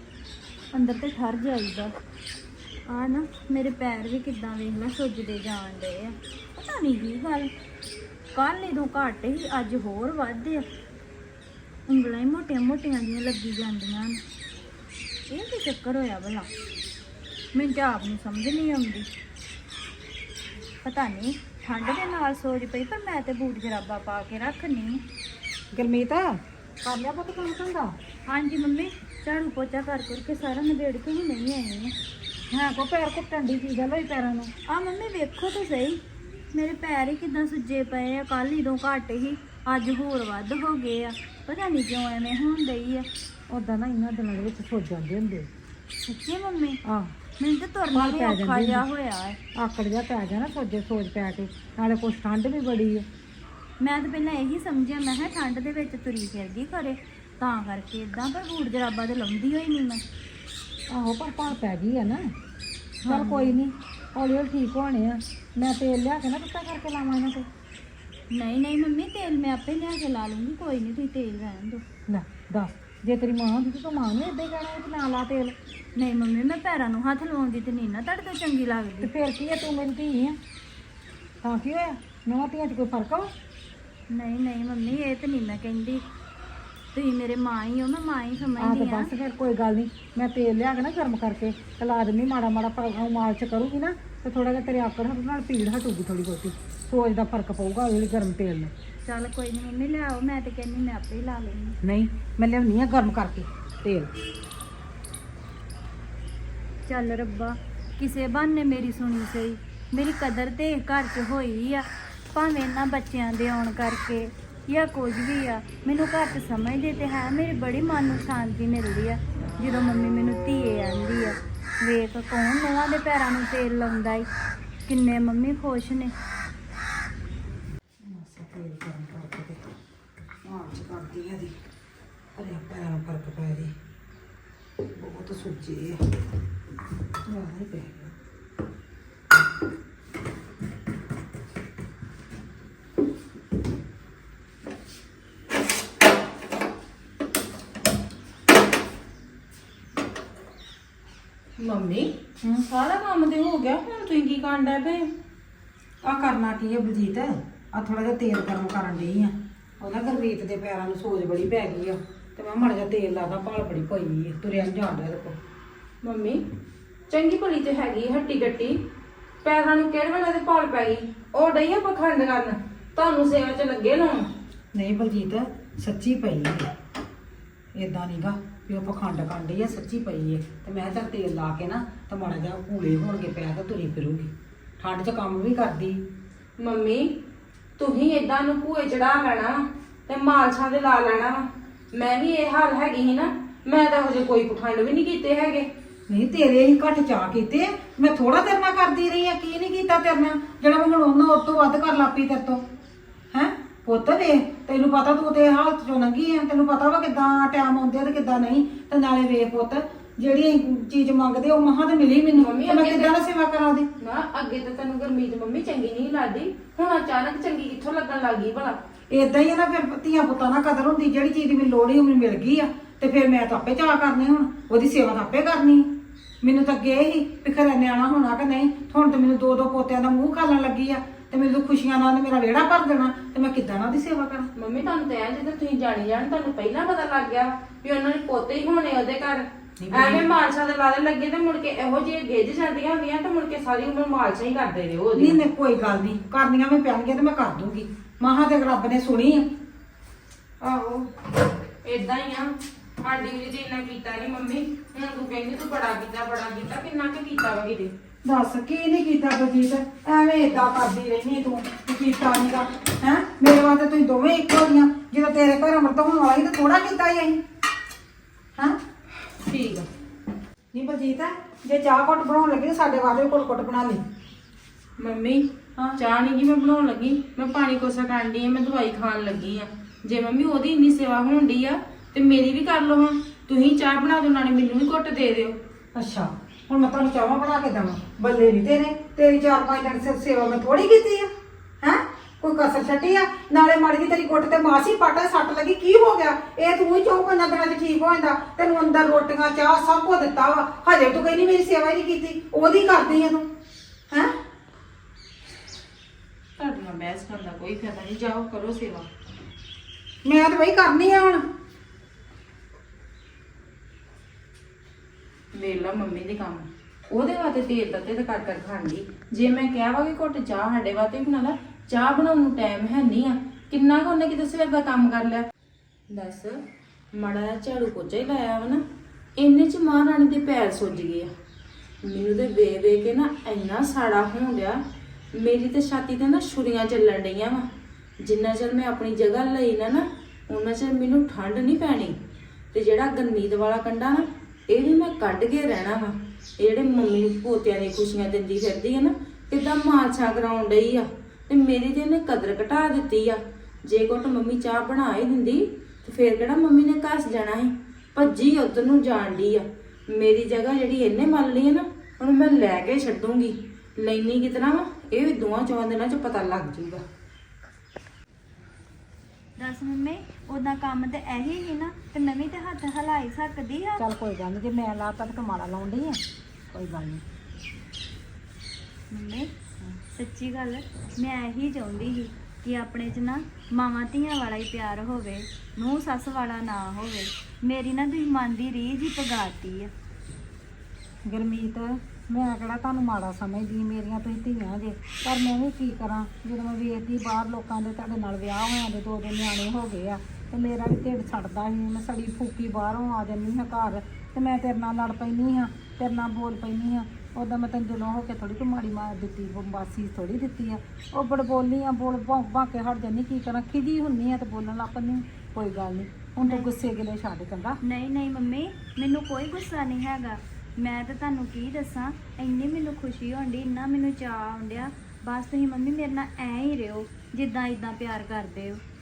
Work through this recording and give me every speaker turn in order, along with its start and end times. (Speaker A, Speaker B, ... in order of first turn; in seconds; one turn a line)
Speaker A: 0.7-1.9
Speaker A: 2.9-7.5
Speaker A: 8.3-10.7
Speaker A: 11.9-14.2
Speaker A: 15.3-16.5
Speaker A: 17.5-19.1
Speaker A: 20.8-25.0
Speaker B: 25.7-28.0
Speaker A: 28.3-31.9
Speaker B: 32.5-34.5
Speaker A: 34.7-36.0
Speaker A: 36.5-43.1
Speaker B: 43.5-45.5
Speaker A: 46.0-46.8
Speaker B: 46.9-47.1
Speaker A: 47.4-49.4
Speaker B: 47.9-48.8
Speaker B: 49.5-53.1
Speaker A: 53.8-60.0
Speaker B: 60.9-62.3
Speaker A: 63.0-63.6
Speaker B: 63.1-67.5
Speaker A: 68.3-71.8
Speaker B: 72.1-75.6
Speaker A: 76.0-79.1
Speaker B: 79.0-80.4
Speaker B: 81.4-83.3
Speaker A: 84.1-86.0
Speaker A: 86.9-89.1
Speaker B: 88.6-98.7
Speaker A: 99.0-101.8
Speaker B: 101.8-104.1
Speaker A: 106.9-124.3
Speaker A: 124.9-126.1
Speaker B: 128.0-129.6
Speaker B: 130.4-131.6
Speaker B: 132.4-133.7
Speaker B: 134.9-136.1
Speaker B: 137.3-138.1
Speaker C: 151.6-152.1
Speaker C: 152.7-155.1
Speaker B: 156.0-165.4
Speaker C: 166.0-166.4
Speaker C: 167.1-168.8
Speaker C: 169.4-174.3
Speaker B: 174.7-176.7
Speaker B: 177.8-186.0
Speaker C: 186.6-187.1
Speaker C: 187.8-195.7
Speaker B: 196.1-202.6
Speaker B: 203.3-213.9
Speaker C: 212.3-213.1
Speaker C: 214.0-218.8
Speaker B: 219.1-225.9
Speaker B: 226.4-234.5
Speaker C: 234.6-245.4
Speaker B: 239.8-240.3
Speaker B: 245.2-249.5
Speaker C: 250.6-251.1
Speaker C: 251.8-257.9
Speaker B: 258.2-267.4
Speaker C: 269.3-269.9
Speaker B: 270.7-274.0
Speaker C: 275.0-275.5
Speaker C: 276.0-285.6
Speaker B: 285.9-303.5
Speaker C: 306.6-309.1
Speaker B: 310.2-311.4
Speaker C: 315.5-325.5
Speaker C: 326.1-326.6
Speaker C: 327.1-328.8
Speaker C: 329.4-331.3
Speaker C: 332.0-334.8
Speaker C: 335.3-337.7
Speaker C: 338.2-342.2
Speaker C: 342.7-367.0
Speaker A: 369.6-374.1
Speaker B: 374.0-377.2
Speaker A: 379.1-379.5
Speaker A: 380.0-389.9
Speaker B: 391.3-417.8
Speaker A: 416.4-416.7
Speaker A: 417.8-428.8